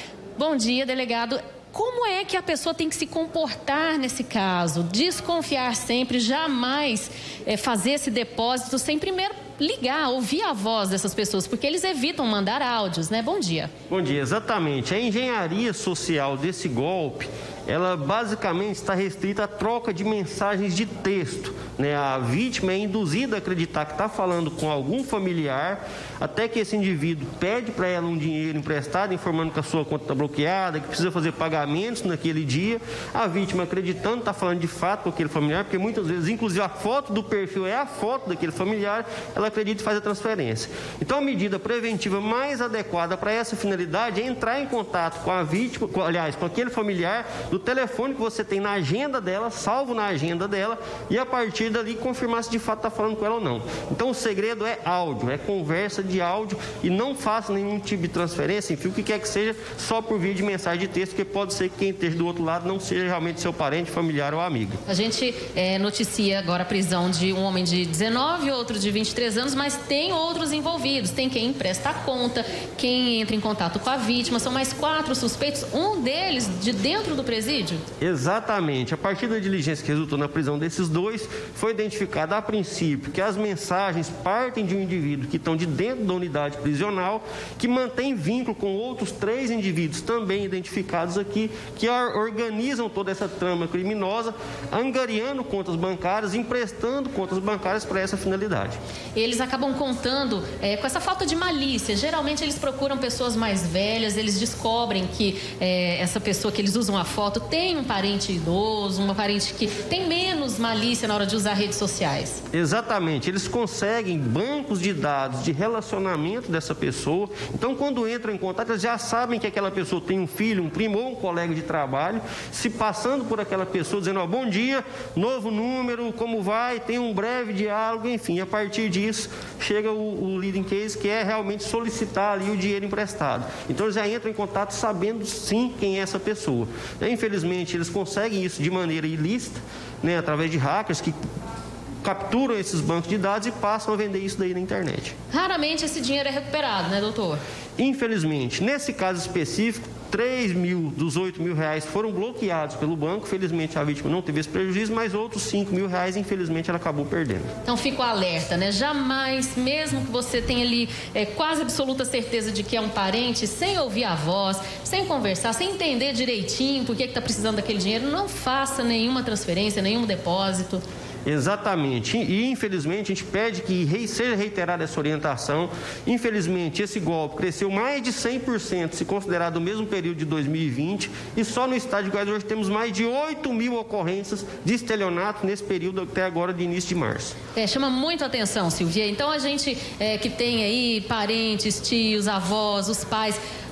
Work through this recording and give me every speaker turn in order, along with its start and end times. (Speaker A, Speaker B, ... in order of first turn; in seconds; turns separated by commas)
Speaker A: 0.4-13.7, Speaker B: 13.9-64.8, Speaker A: 64.9-77.8, Speaker B: 78.0-98.8, Speaker A: 99.2-112.4, Speaker B: 112.5-141.2, Speaker B: 142.0-145.1, Speaker A: 145.3-147.4, Speaker B: 147.8-157.5, Speaker A: 157.7-170.8, Speaker B: 171.3-187.4, Speaker A: 187.6-193.4